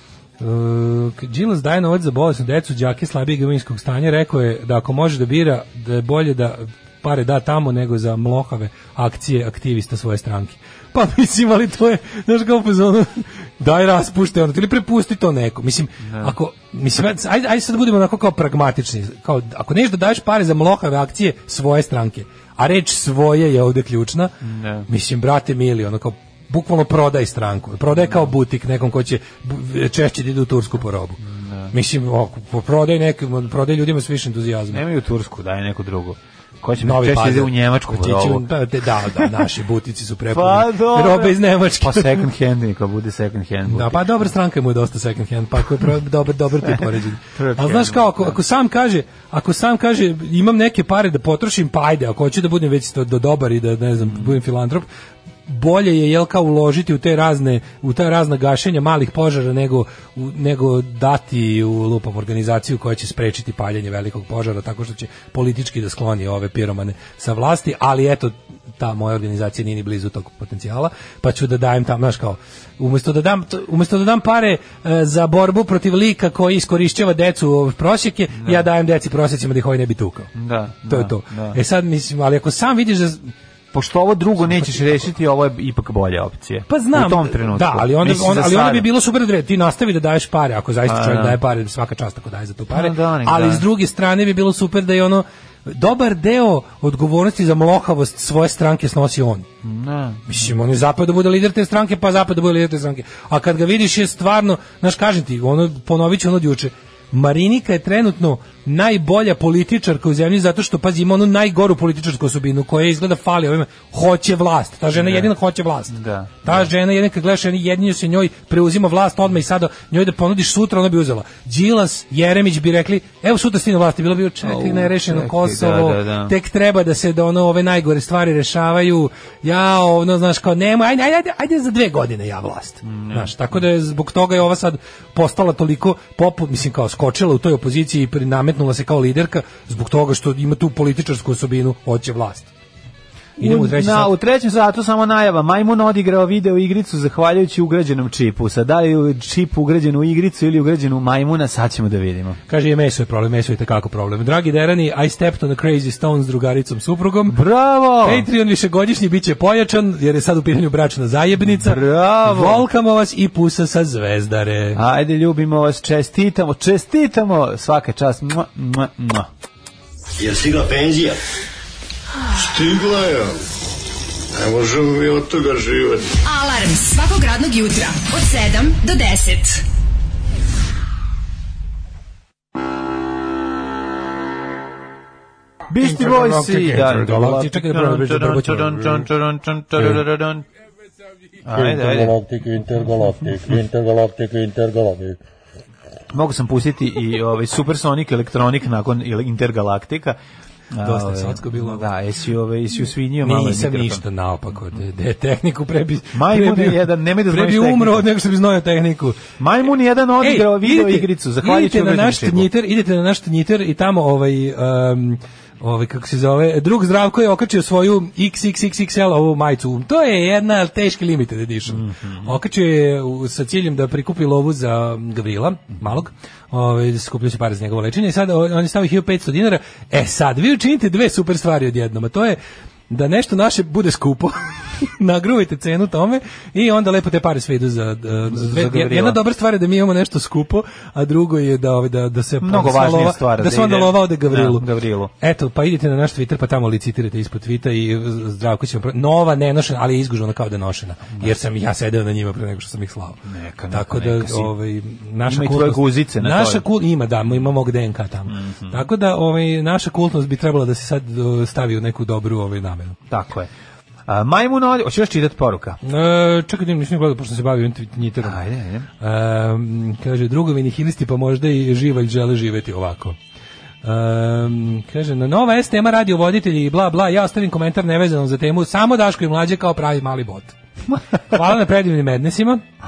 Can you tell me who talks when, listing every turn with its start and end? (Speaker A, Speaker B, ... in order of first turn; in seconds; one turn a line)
Speaker A: 0.4-24.4
Speaker B: 16.0-16.3
Speaker B: 24.4-24.9
Speaker A: 24.9-34.8
Speaker B: 28.0-28.3
Speaker B: 31.2-31.7
Speaker B: 34.7-38.5
Speaker A: 36.8-42.2
Speaker B: 40.3-44.2
Speaker A: 43.7-54.9
Speaker B: 47.3-48.4
Speaker A: 55.5-80.3
Speaker B: 78.3-78.6
Speaker B: 80.3-81.6
Speaker A: 80.8-83.3
Speaker B: 83.7-88.9
Speaker A: 86.7-99.5
Speaker B: 90.8-91.4
Speaker B: 92.7-93.6
Speaker B: 99.6-100.3
Speaker A: 100.3-142.5
Speaker B: 114.9-115.3
Speaker B: 115.9-116.7
Speaker B: 124.4-126.3
Speaker B: 132.8-133.3
Speaker A: 143.4-144.1
Speaker B: 143.4-152.4
Speaker A: 152.5-157.4
Speaker B: 157.3-158.3
Speaker A: 158.0-164.8
Speaker B: 161.4-162.6
Speaker B: 164.7-169.3
Speaker C: 172.4-173.4
Speaker C: 174.3-176.1
Speaker D: 176.2-179.6
Speaker B: 185.7-190.4
Speaker A: 185.8-189.1
Speaker A: 189.8-190.0
Speaker B: 191.4-192.2
Speaker E: 191.5-195.2
Speaker B: 196.1-200.2
Speaker B: 200.7-204.0
Speaker A: 200.8-201.9
Speaker A: 203.2-209.2
Speaker B: 206.1-208.1
Speaker B: 209.4-212.5
Speaker A: 210.2-232.4
Speaker B: 221.7-222.4
Speaker A: 232.9-244.7
Speaker B: 238.3-239.2
Speaker B: 242.4-245.1
Speaker A: 245.2-263.0
Speaker B: 253.2-254.5
Speaker B: 255.2-256.6
Speaker B: 258.3-258.8
Speaker B: 263.1-263.5
Speaker B: 264.1-265.8
Speaker A: 265.8-268.4
Speaker B: 268.2-268.9
Speaker A: 269.0-273.2
Speaker A: 273.8-280.5
Speaker A: 281.3-282.6